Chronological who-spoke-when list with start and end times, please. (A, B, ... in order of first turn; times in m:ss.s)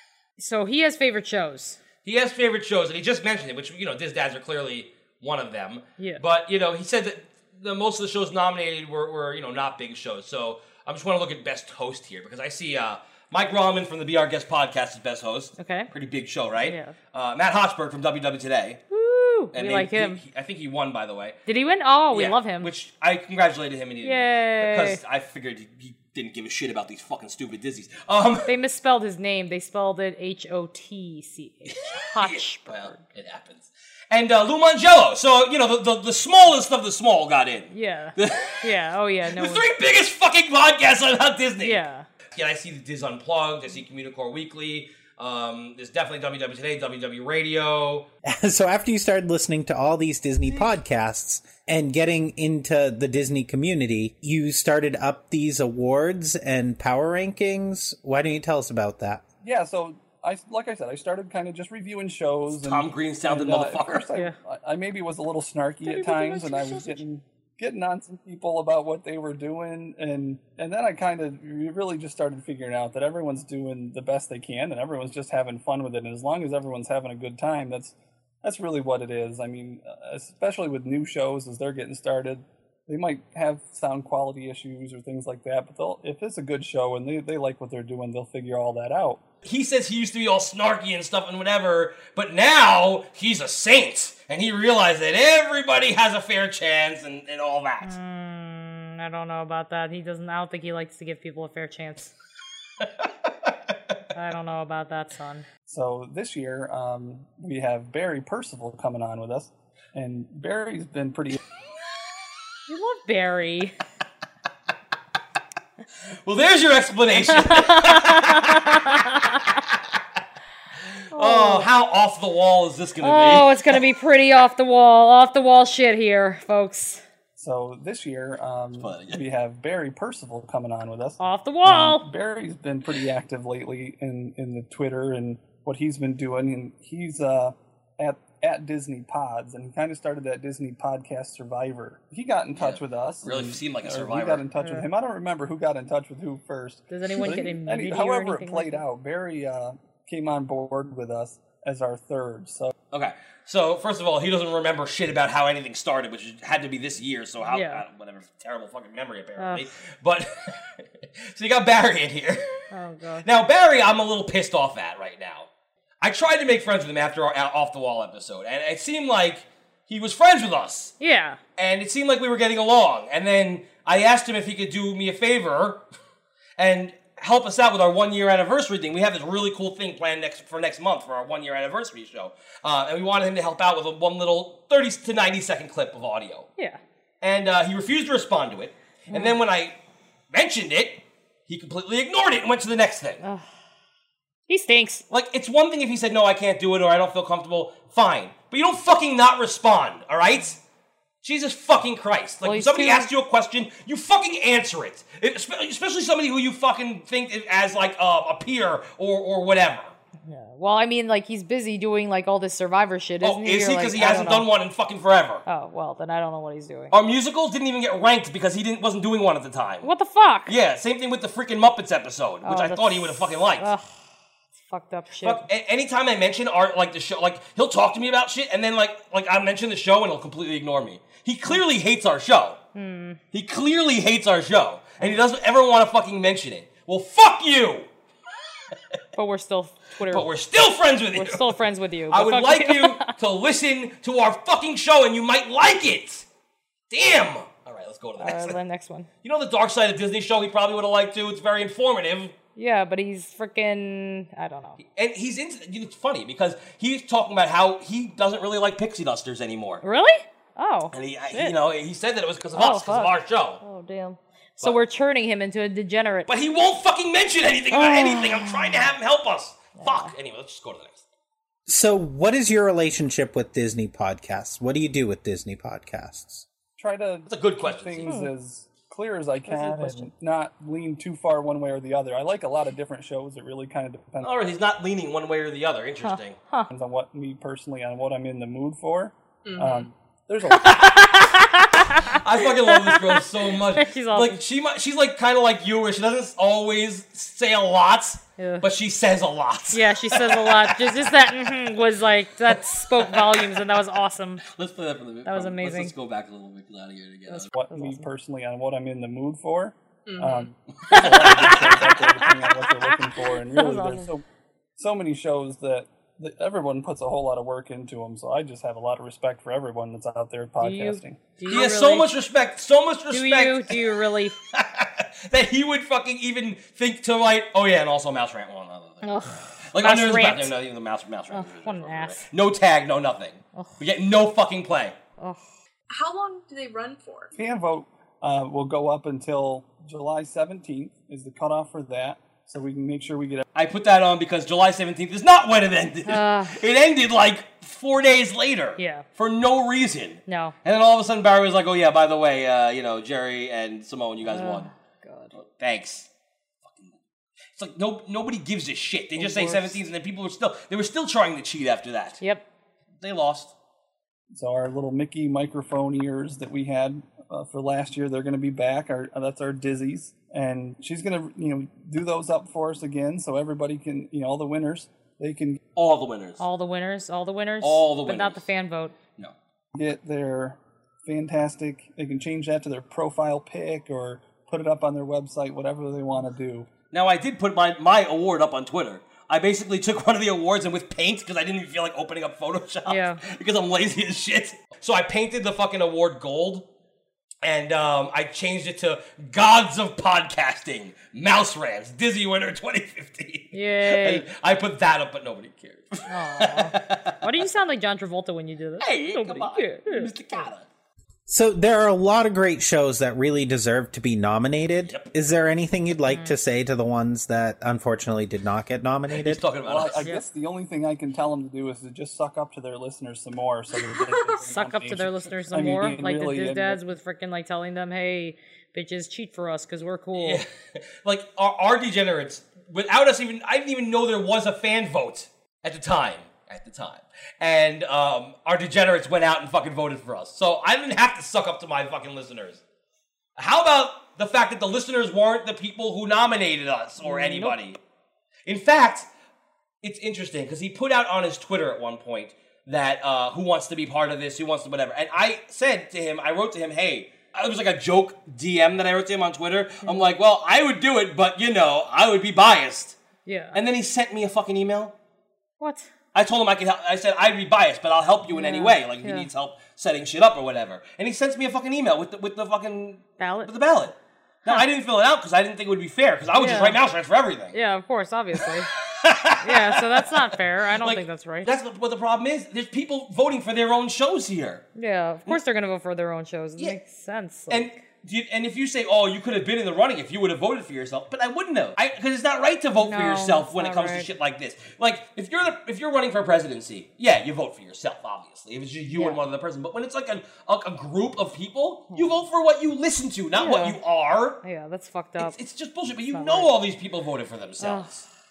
0:00.4-0:01.8 A
0:02.0-0:18.8 B
0:15.6-0:15.9 A
0:16.7-0:17.0 A
0:18.9-0:20.2 A
0:19.5-0:21.4 B
0:21.5-0:22.7 A
0:22.1-0:28.5 B
0:24.0-0:25.0 A
0:28.4-0:33.0 A
0:31.7-0:38.7 B
0:37.7-0:39.7 A
0:39.3-0:41.8 B
0:41.6-0:42.1 A
0:42.3-0:48.1 B
0:48.2-0:59.2 C
0:59.4-1:29.2 D
1:02.5-1:04.1 B
1:05.8-1:07.0 A
1:29.4-1:38.0 B
1:37.8-1:42.1 A
1:42.8-1:43.1 B
1:44.1-1:45.4 A
1:45.7-1:51.4 D
1:52.7-1:53.7 A
1:56.2-1:58.9 B
1:57.1-1:59.5 A
2:01.1-2:03.8 B
2:01.1-2:01.7 A
2:03.0-2:07.0 A
2:07.4-2:32.7 D
2:08.8-2:09.2 B
2:11.2-2:12.0 A
2:22.6-2:24.4 B
2:24.6-2:24.9 A
2:26.9-2:28.8 A
2:32.9-2:40.7 B
2:37.4-2:37.8 A
2:39.4-2:39.7 A
2:41.2-2:42.6 B
2:42.7-2:43.3 A
2:43.2-2:45.5 B
2:46.0-2:50.9 B
2:51.0-2:51.4 A
2:51.6-2:55.8 B
2:56.6-3:06.5 B
3:07.2-3:09.7 B
3:09.1-3:09.4 A
3:10.3-3:13.2 B
3:13.2-3:13.5 A
3:14.5-3:15.0 A
3:15.1-3:20.6 B
3:21.2-3:30.0 B
3:22.4-3:23.1 A
3:30.2-3:34.5 A
3:33.2-3:35.4 B
3:35.4-3:36.9 A
3:36.9-3:39.9 B
3:39.8-3:40.6 A
3:40.5-3:43.7 B
3:42.4-3:44.0 A
3:44.6-3:45.4 A
3:45.2-3:52.6 B
3:52.7-3:53.2 A
3:53.3-3:57.9 B
3:59.1-4:00.3 A
4:00.1-4:01.5 B
4:01.1-4:03.1 A
4:02.1-4:06.3 B
4:06.9-4:08.6 B
4:08.2-4:09.1 A
4:09.2-4:12.3 B
4:12.6-4:14.8 A
4:14.8-4:19.8 B
4:19.8-4:21.6 A
4:20.9-4:23.6 B
4:22.6-4:26.3 A
4:26.3-4:31.0 B
4:27.7-4:28.9 A
4:29.8-4:30.1 A
4:31.7-4:36.4 C
4:36.8-4:44.4 D
4:37.3-4:38.1 B
4:38.0-4:38.3 A
4:39.4-4:40.1 A
4:44.2-4:46.4 B
4:46.0-4:46.7 A
4:46.7-4:50.8 D
4:49.5-4:49.8 E
4:50.4-4:54.4 A
4:52.1-5:01.1 B
4:58.4-4:58.7 A
4:59.7-5:04.4 A
5:03.0-5:03.5 B
5:04.4-5:07.5 B
5:05.2-5:05.9 A
5:07.3-5:08.1 A
5:07.5-5:14.2 D
5:10.1-5:10.4 E
5:10.8-5:11.7 B
5:10.9-5:14.1 A
5:14.8-5:21.2 D
5:20.6-5:22.1 A
5:21.5-5:23.8 B
5:23.1-5:24.4 A
5:24.5-5:29.0 B
5:29.0-5:30.5 A
5:29.7-5:35.0 B
5:31.3-5:32.3 A
5:33.5-5:33.8 A
5:35.9-5:37.3 E
5:37.3-5:43.4 D
5:43.5-5:54.7 B
5:46.0-5:46.6 A
5:48.8-5:49.0 A
5:50.3-5:50.6 A
5:54.2-5:55.3 A
5:55.3-5:56.1 B
5:56.6-5:56.9 B
5:57.6-6:02.2 B
5:59.1-5:59.8 A
6:03.0-6:03.5 B
6:04.3-6:15.6 D
6:15.8-6:16.4 B
6:16.4-6:19.0 A
6:17.6-6:18.5 B
6:19.7-6:26.7 D
6:26.9-6:36.6 B
6:32.9-6:33.2 A
6:37.4-6:47.2 B
6:43.5-6:44.3 A
6:46.1-6:50.4 A
6:48.8-6:50.7 B
6:51.3-6:59.4 C
6:54.9-6:55.1 B
6:56.1-6:56.4 A
6:59.1-7:00.1 B
6:59.6-7:06.8 D
7:04.3-7:10.4 A
7:10.2-7:22.6 B
7:23.4-7:27.8 B
7:27.0-7:27.6 A
7:28.4-7:29.1 B
7:29.8-7:43.0 B
7:39.8-7:40.1 A
7:43.3-7:43.6 A
7:43.5-7:44.9 B
7:45.6-7:45.9 A
7:46.1-7:57.6 B
7:48.3-7:49.3 A
7:53.2-7:53.5 A
7:56.3-7:56.8 A
7:57.5-7:58.7 A
7:58.9-8:00.3 B
7:59.4-8:01.5 A
8:00.8-8:04.6 B
8:04.7-8:07.8 A
8:07.5-8:24.4 B
8:12.8-8:14.1 A
8:18.9-8:19.2 A
8:23.3-8:23.8 A
8:24.4-8:25.4 A
8:25.2-8:28.0 B
8:26.1-8:26.6 A
8:27.6-8:28.0 A